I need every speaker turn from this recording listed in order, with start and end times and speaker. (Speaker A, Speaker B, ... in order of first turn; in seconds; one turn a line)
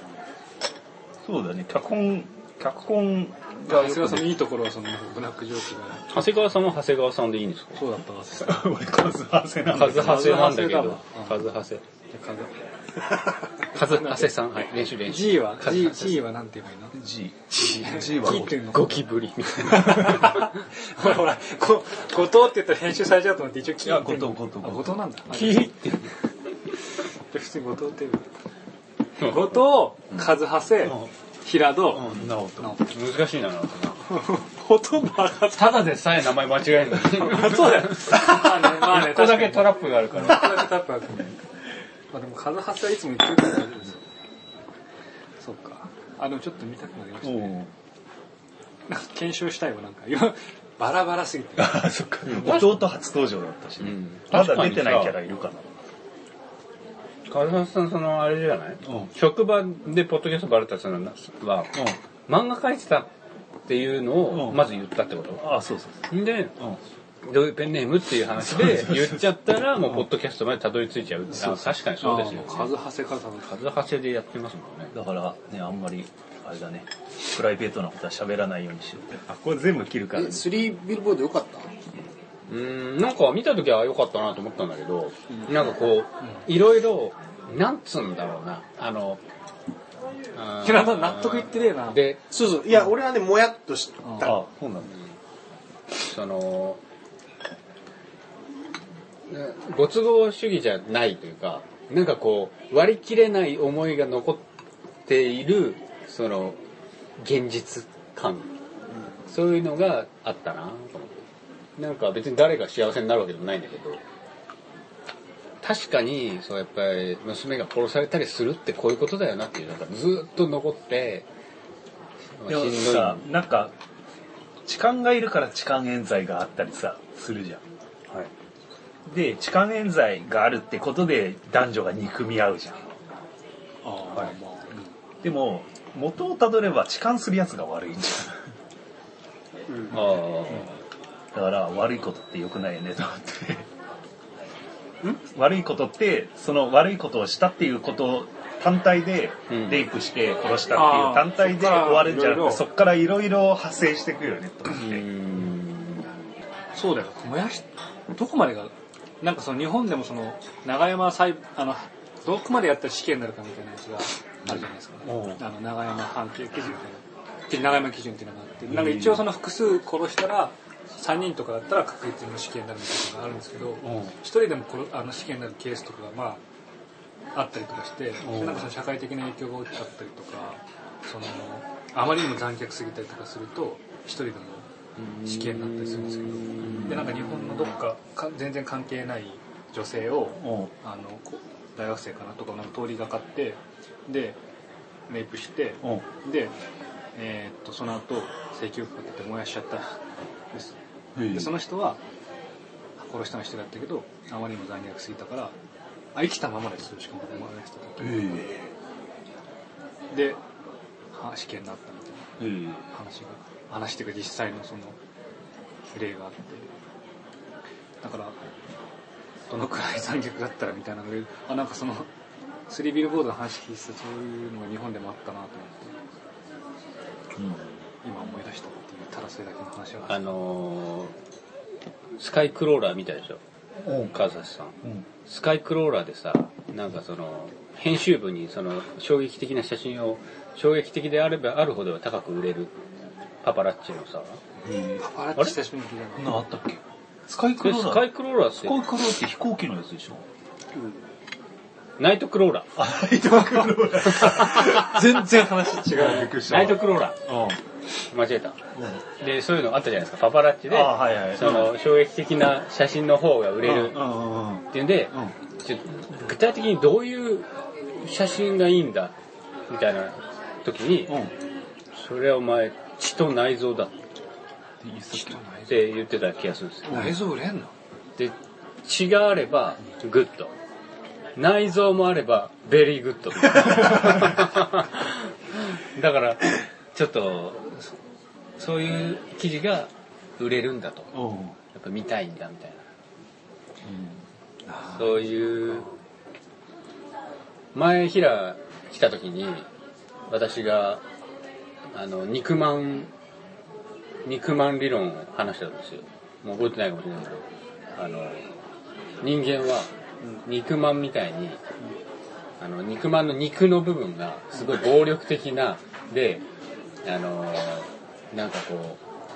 Speaker A: 1.3-4.3
Speaker B: 3.7-6.1
Speaker C: 6.1-7.8
Speaker B: 7.8-8.7
Speaker A: 8.4-10.4
Speaker C: 9.7-11.8
Speaker B: 9.9-11.4
Speaker B: 12.1-12.5
Speaker C: 13.7-16.3
Speaker B: 13.8-14.3
Speaker B: 15.1-16.9
Speaker A: 16.9-18.7
Speaker B: 17.6-25.9
Speaker C: 18.3-20.6
Speaker A: 23.8-25.0
Speaker C: 25.3-26.1
Speaker B: 27.3-28.3
Speaker C: 29.2-29.5
Speaker B: 29.2-32.9
Speaker A: 30.8-31.1
Speaker A: 31.9-32.8
Speaker C: 32.9-34.0
Speaker B: 34.1-36.0
Speaker C: 35.5-40.8
Speaker B: 37.1-41.4
Speaker B: 42.1-44.0
Speaker B: 45.4-47.6
Speaker A: 47.2-47.7
Speaker B: 48.9-51.9
Speaker A: 51.6-55.7
Speaker C: 52.3-52.8
Speaker C: 53.8-55.1
Speaker C: 57.3-63.1
Speaker A: 58.9-59.1
Speaker C: 63.7-65.4
Speaker A: 64.3-64.6
Speaker A: 65.4-66.0
Speaker C: 66.1-66.5
Speaker C: 67.2-72.7
Speaker A: 68.4-69.2
Speaker B: 71.4-73.6
Speaker C: 73.5-74.9
Speaker A: 74.9-80.5
Speaker D: 80.1-81.7
Speaker C: 82.5-89.2
Speaker C: 90.3-92.2
Speaker B: 90.6-92.0
Speaker D: 92.3-94.4
Speaker B: 94.0-94.3
Speaker A: 94.2-94.9
Speaker C: 96.0-96.8
Speaker C: 99.3-104.4
Speaker C: 105.1-106.6
Speaker C: 107.2-108.5
Speaker C: 109.3-111.2
Speaker C: 111.8-114.0
Speaker C: 115.6-121.3
Speaker C: 122.4-123.2
Speaker A: 122.5-123.7
Speaker A: 124.7-127.6
Speaker A: 129.1-132.8
Speaker B: 133.8-134.9
Speaker A: 135.2-138.4
Speaker D: 139.7-139.9
Speaker C: 139.9-140.8
Speaker A: 141.3-143.7
Speaker A: 145.3-155.1
Speaker C: 149.5-149.8
Speaker B: 150.7-152.7
Speaker C: 154.8-156.1
Speaker B: 156.8-176.4
Speaker A: 164.5-165.4
Speaker A: 168.7-169.2
Speaker A: 173.8-174.2
Speaker B: 177.3-194.4
Speaker A: 178.2-178.7
Speaker C: 185.0-187.6
Speaker A: 186.6-187.2
Speaker A: 190.4-190.7
Speaker B: 195.1-196.6
Speaker B: 197.2-199.9
Speaker A: 201.2-201.5
Speaker B: 201.3-202.0
Speaker B: 203.0-205.6
Speaker B: 206.1-208.4
Speaker A: 208.0-208.6
Speaker B: 210.1-210.4
Speaker B: 211.1-215.0
Speaker A: 212.4-212.8
Speaker B: 215.9-216.7
Speaker B: 218.0-218.4
Speaker B: 219.5-222.1
Speaker B: 222.7-225.9
Speaker A: 227.4-227.7
Speaker B: 228.0-230.3
Speaker C: 230.1-231.1
Speaker C: 232.2-233.4
Speaker A: 233.8-234.2
Speaker C: 234.1-242.7
Speaker C: 243.4-244.4
Speaker A: 244.6-245.1
Speaker B: 245.0-246.4
Speaker A: 246.2-250.2
Speaker C: 247.6-248.8
Speaker D: 250.8-251.0
Speaker C: 252.0-252.7
Speaker A: 252.8-255.0
Speaker B: 254.3-256.4
Speaker A: 255.9-257.6
Speaker C: 256.4-257.2
Speaker C: 258.1-258.6
Speaker A: 258.8-259.0
Speaker C: 259.2-264.0
Speaker A: 260.7-261.7
Speaker A: 263.6-265.3
Speaker C: 264.7-269.1
Speaker C: 269.7-271.1
Speaker A: 271.1-271.3
Speaker C: 272.0-274.0
Speaker A: 274.8-275.4
Speaker B: 275.1-275.9
Speaker C: 275.7-277.2
Speaker A: 276.9-277.1
Speaker B: 276.9-277.7
Speaker C: 278.2-280.5
Speaker C: 281.4-287.9
Speaker C: 288.6-291.1
Speaker A: 291.1-291.6
Speaker C: 291.7-292.8
Speaker A: 293.9-294.2
Speaker B: 294.7-295.8
Speaker C: 294.9-295.9
Speaker C: 297.7-299.7
Speaker C: 300.3-301.0
Speaker C: 301.9-303.1
Speaker C: 304.2-308.5
Speaker C: 309.2-309.9
Speaker C: 310.4-311.6
Speaker C: 312.6-316.4
Speaker C: 317.0-319.0